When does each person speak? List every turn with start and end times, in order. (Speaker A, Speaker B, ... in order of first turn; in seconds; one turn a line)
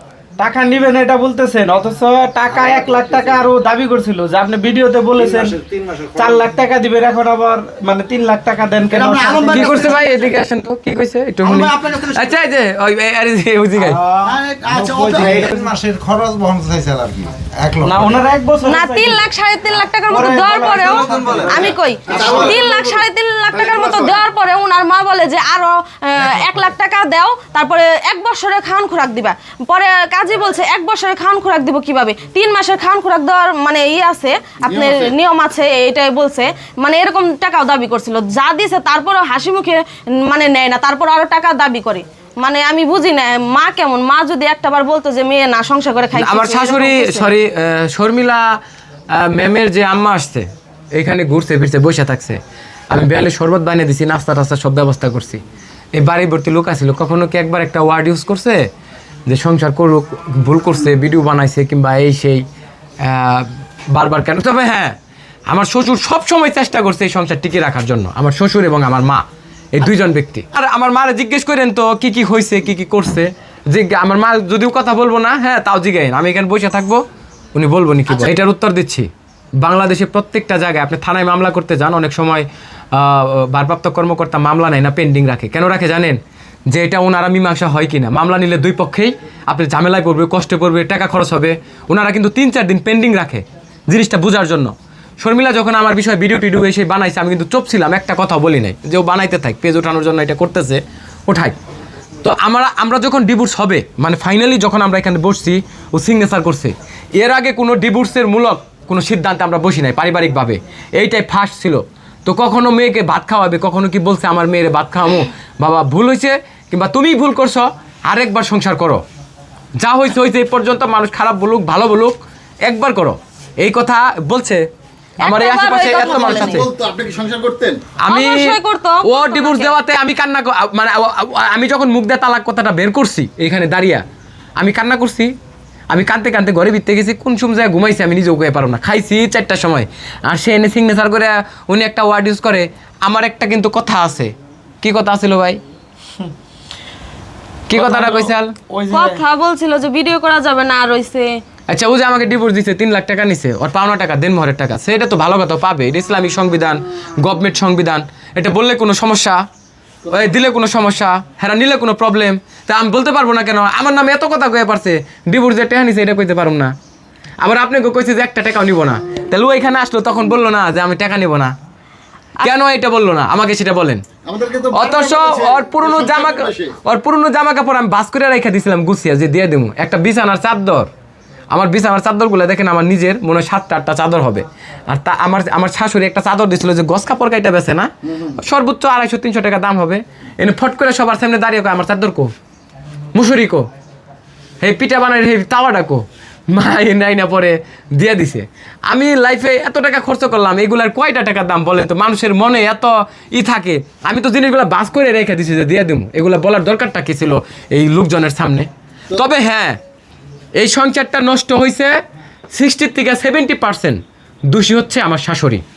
Speaker A: 0.4-5.5
Speaker B: 2.6-3.5
Speaker B: 5.2-6.5
Speaker A: 6.2-9.9
Speaker C: 8.9-10.2
Speaker D: 9.5-14.0
Speaker C: 11.4-12.3
Speaker C: 14.2-15.6
Speaker B: 14.7-18.2
Speaker A: 15.0-15.6
Speaker A: 17.8-19.2
Speaker E: 18.6-47.3
Speaker A: 20.1-21.6
Speaker B: 20.9-21.7
Speaker C: 21.5-24.2
Speaker C: 34.6-35.1
Speaker D: 46.1-48.6
Speaker D: 49.1-55.4
Speaker D: 55.9-58.7
Speaker D: 59.3-62.4
Speaker D: 63.0-65.0
Speaker D: 65.5-77.0
Speaker D: 77.5-79.1
Speaker D: 79.6-101.5
Speaker D: 102.2-119.0
Speaker D: 119.8-124.6
Speaker E: 125.2-126.6
Speaker D: 125.2-126.7
Speaker C: 126.1-127.8
Speaker D: 128.0-134.0
Speaker E: 128.1-129.8
Speaker D: 134.6-135.3
Speaker D: 135.9-145.6
Speaker D: 147.7-148.6
Speaker A: 147.7-149.2
Speaker E: 148.9-151.3
Speaker D: 151.7-159.4
Speaker D: 160.1-166.7
Speaker D: 167.4-171.5
Speaker D: 172.4-174.0
Speaker C: 174.2-176.7
Speaker D: 174.7-180.9
Speaker D: 181.5-192.3
Speaker C: 188.1-188.4
Speaker D: 193.1-193.7
Speaker D: 194.6-209.8
Speaker D: 210.6-212.0
Speaker D: 212.5-215.6